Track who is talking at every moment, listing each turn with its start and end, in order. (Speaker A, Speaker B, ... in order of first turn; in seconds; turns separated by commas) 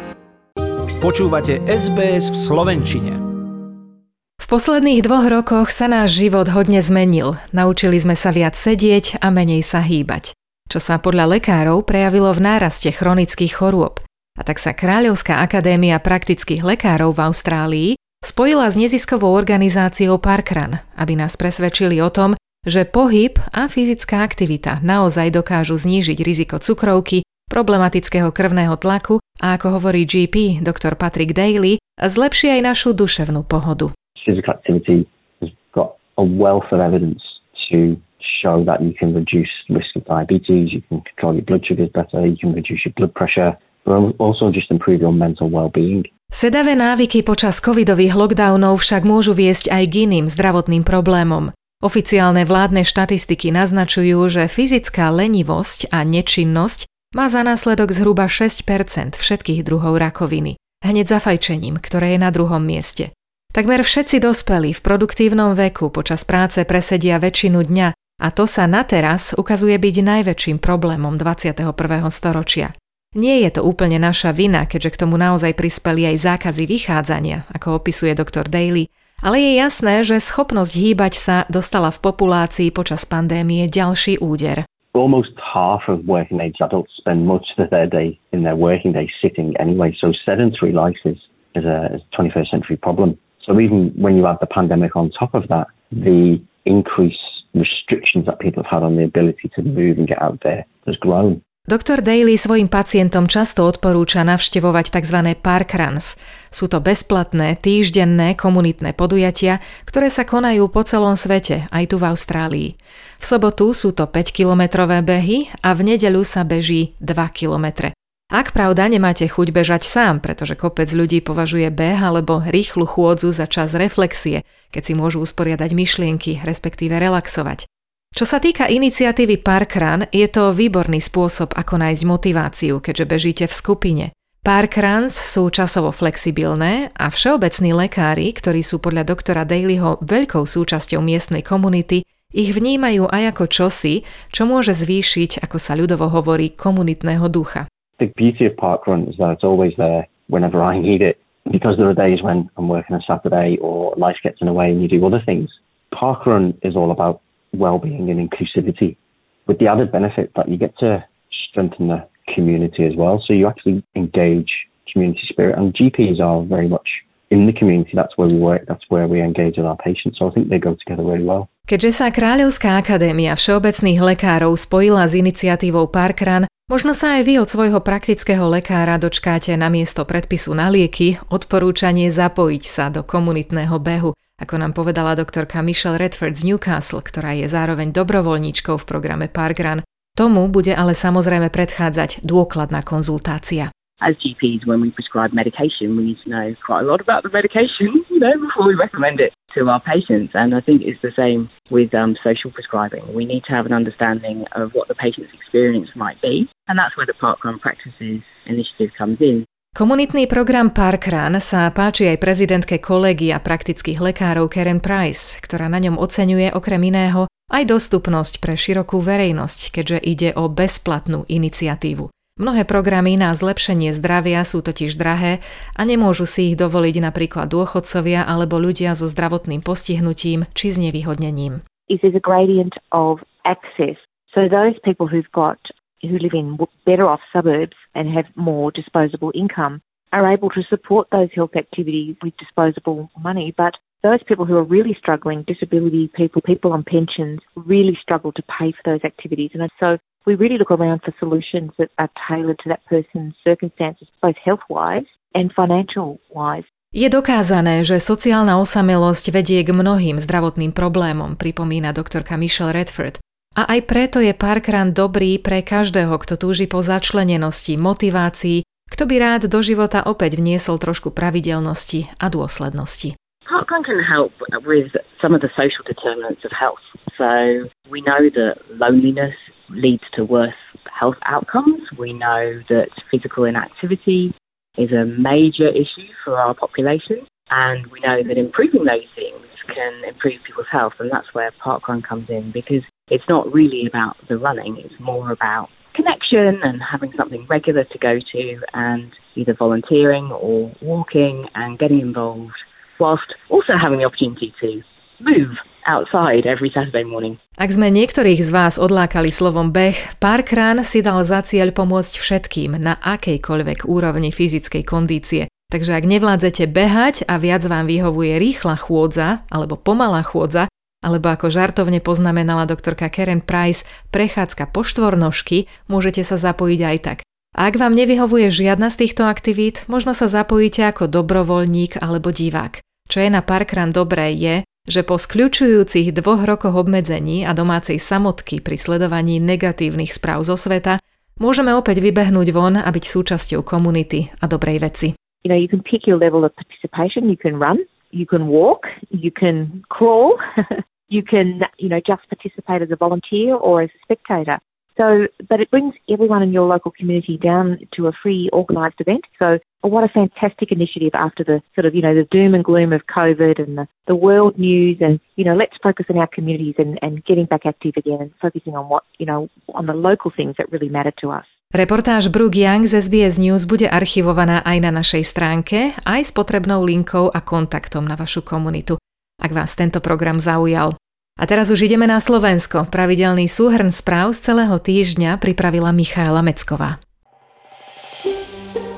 Speaker A: 1.0-3.2, Speaker B: 4.4-33.9, Speaker C: 34.2-46.1, Speaker B: 46.3-84.7, Speaker C: 84.9-101.4, Speaker B: 101.7-147.7, Speaker C: 148.0-171.5, Speaker B: 171.7-193.7, Speaker D: 194.0-209.5, Speaker B: 209.8-231.6, Speaker E: 231.9-256.6, Speaker B: 256.9-273.1, Speaker D: 273.5-307.4, Speaker B: 307.6-345.1, Speaker E: 345.4-371.5, Speaker B: 371.7-387.0